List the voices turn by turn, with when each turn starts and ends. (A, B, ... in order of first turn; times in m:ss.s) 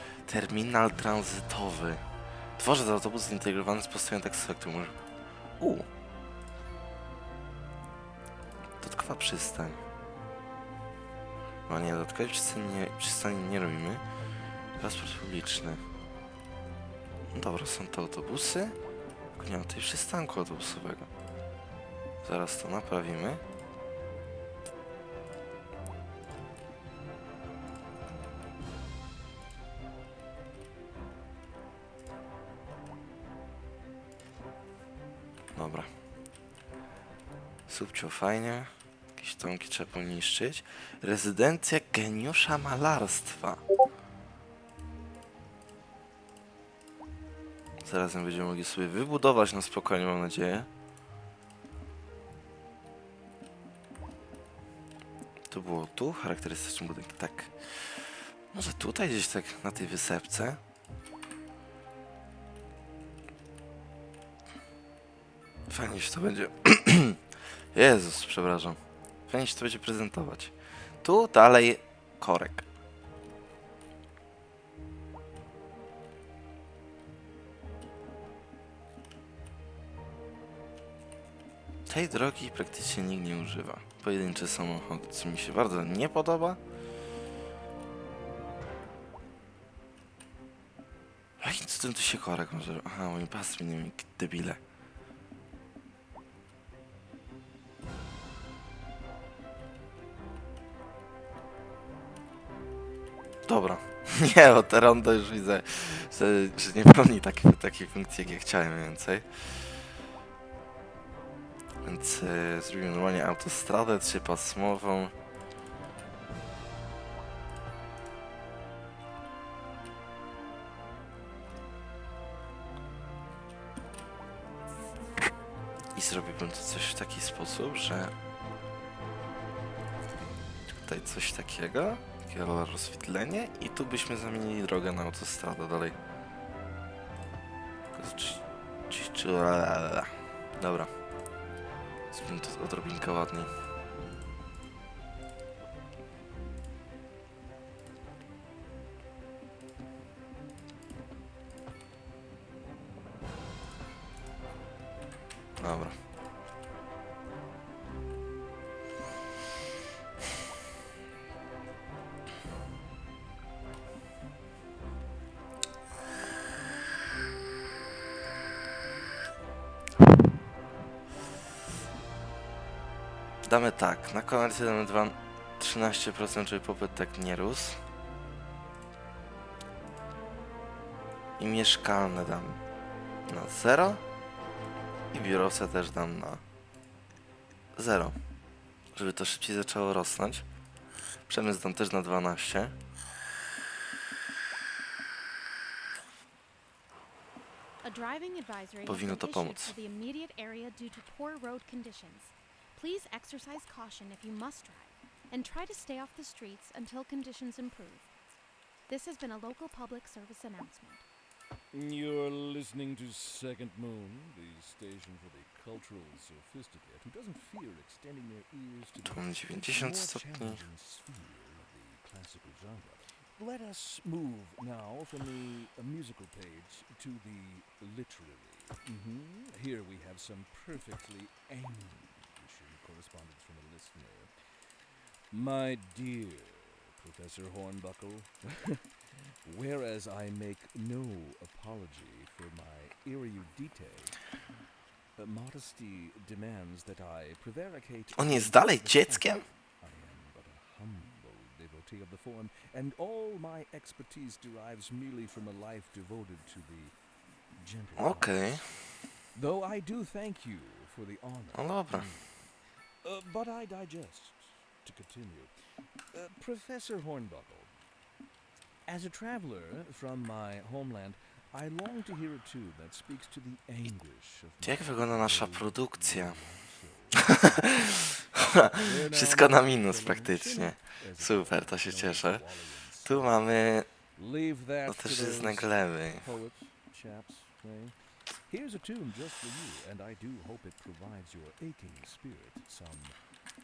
0:00.2-0:02.0 A
0:02.6-0:05.0 A
0:05.6-0:05.9 A
0:08.8-0:09.8 A
0:11.7-0:14.0 A
0:14.8-0:15.8 A
0:17.3-0:18.8 A
0:19.4-0:21.1 A
0:22.2-0:23.4 A
0:35.5-0:35.9 A
0:37.7-0:43.6 A
0:47.8-0:50.7 A
0:55.5-1:00.6 A
1:05.7-1:07.2 A
1:07.7-1:12.7 A
1:21.9-1:26.6 A
1:31.4-1:34.6 A
1:43.4-1:49.7 A
1:51.8-1:55.1 A
2:05.9-2:08.2 A
2:10.7-2:16.0 A
2:17.9-2:20.9 A
2:22.1-2:23.5 A
2:35.6-2:36.0 A
2:53.4-2:57.8 A
3:01.4-3:02.6 A
3:03.2-3:04.0 A
3:05.1-3:06.4 A
3:07.8-3:08.2 A
3:08.9-3:10.4 A
3:11.3-3:12.7 A
3:17.8-3:28.1 B
3:18.8-3:19.7 A
3:28.9-3:31.0 B
3:31.7-4:04.2 C
3:39.0-3:40.6 A
4:05.2-4:17.0 C
4:08.1-4:09.4 A
4:17.5-4:18.5 C
4:18.0-4:18.9 A
4:19.3-4:27.7 C
4:21.5-4:22.1 A
4:28.8-4:37.9 C
4:34.6-4:36.4 A
4:37.3-4:42.4 A
4:38.7-4:43.4 C
4:43.0-4:43.9 A
4:44.1-4:53.2 C
4:44.8-4:46.2 A